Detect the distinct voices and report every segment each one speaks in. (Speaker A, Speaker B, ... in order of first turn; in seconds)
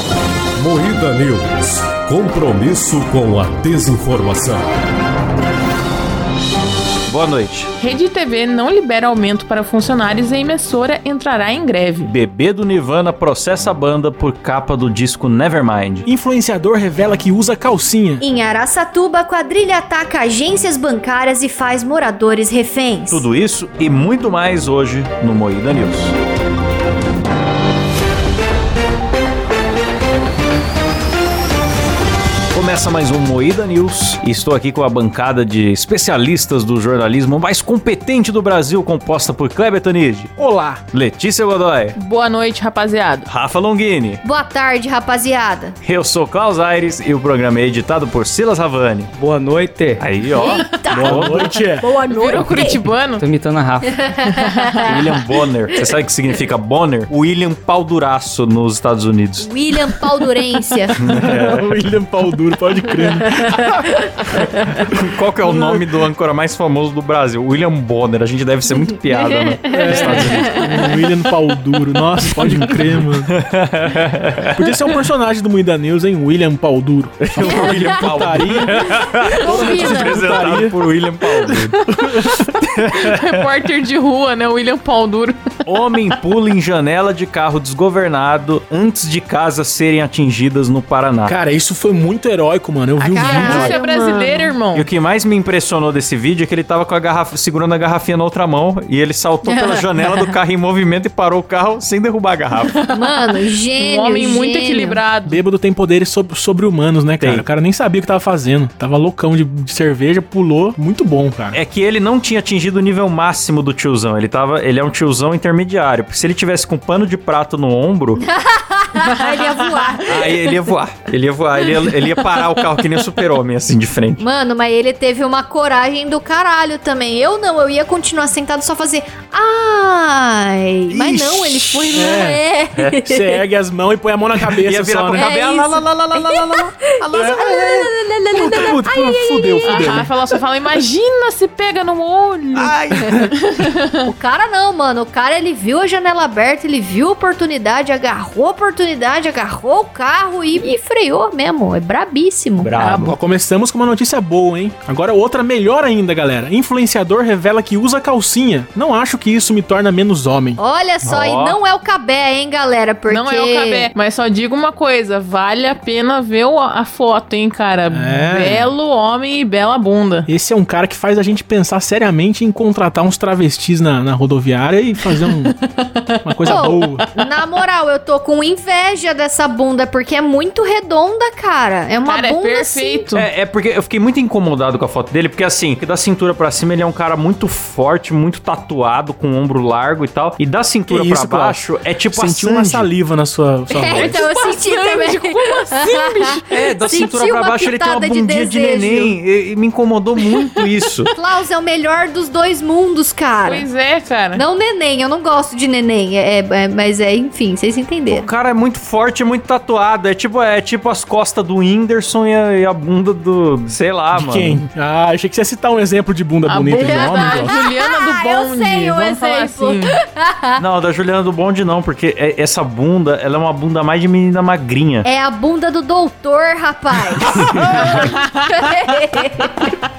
Speaker A: 0.6-4.6
Speaker B: 7.1-7.7, 12.1-16.1, 23.1-26.1, 32.5-40.3, 40.9-42.0, 43.3-44.2, 45.8-49.1, 50.0-51.5, 54.9-59.5, 61.0-61.8, 64.3-70.6, 73.3-74.7, 77.2-81.8, 82.5-83.6, 85.7-91.4, 93.4-93.8, 94.7-102.8, 107.2-107.5, 111.5-118.2, 120.0-124.2, 134.4-137.9, 142.6-143.1, 152.6-153.1, 161.0-161.6, 183.2-192.9, 196.5-201.1, 208.1-214.6, 220.6-225.1, 227.7-227.9
Speaker C: 7.8-12.1, 42.0-43.3, 52.1-53.3, 79.5-79.8, 81.9-85.5, 93.0-94.9, 102.7-105.4, 139.7-142.7, 143.5-143.9, 152.8-153.2, 163.1-170.3, 175.3-176.8, 182.1-183.3, 193.9-196.5, 203.4-204.4, 216.5-219.9, 227.9-228.3
Speaker D: 16.1-18.2, 40.4-40.8, 50.9-51.9, 61.0-63.6, 65.4-65.8, 69.7-73.4, 74.6-80.8, 81.5-82.4, 91.2-93.7, 105.2-111.6, 130.9-132.4, 133.0-135.3, 137.1-137.7, 138.3-140.1, 142.9-143.3, 152.9-160.6, 167.9-168.7, 170.3-175.6, 176.2-177.1, 190.9-194.2, 214.1-217.6, 227.2-228.1
Speaker E: 18.2-23.2, 44.2-45.8, 50.3-52.7, 53.9-55.2, 59.4-61.0, 69.3-70.8, 77.4-78.1, 78.8-80.2, 93.2-94.5, 99.5-100.1, 102.9-105.0, 118.3-120.4, 124.2-133.4, 135.2-140.0, 144.0-152.8, 160.6-163.9, 176.4-183.1, 193.7-199.2, 201.2-203.7, 204.3-208.3, 216.7-220.6, 225.0-229.8
Speaker F: 49.2-50.0, 52.4-52.7, 53.2-54.2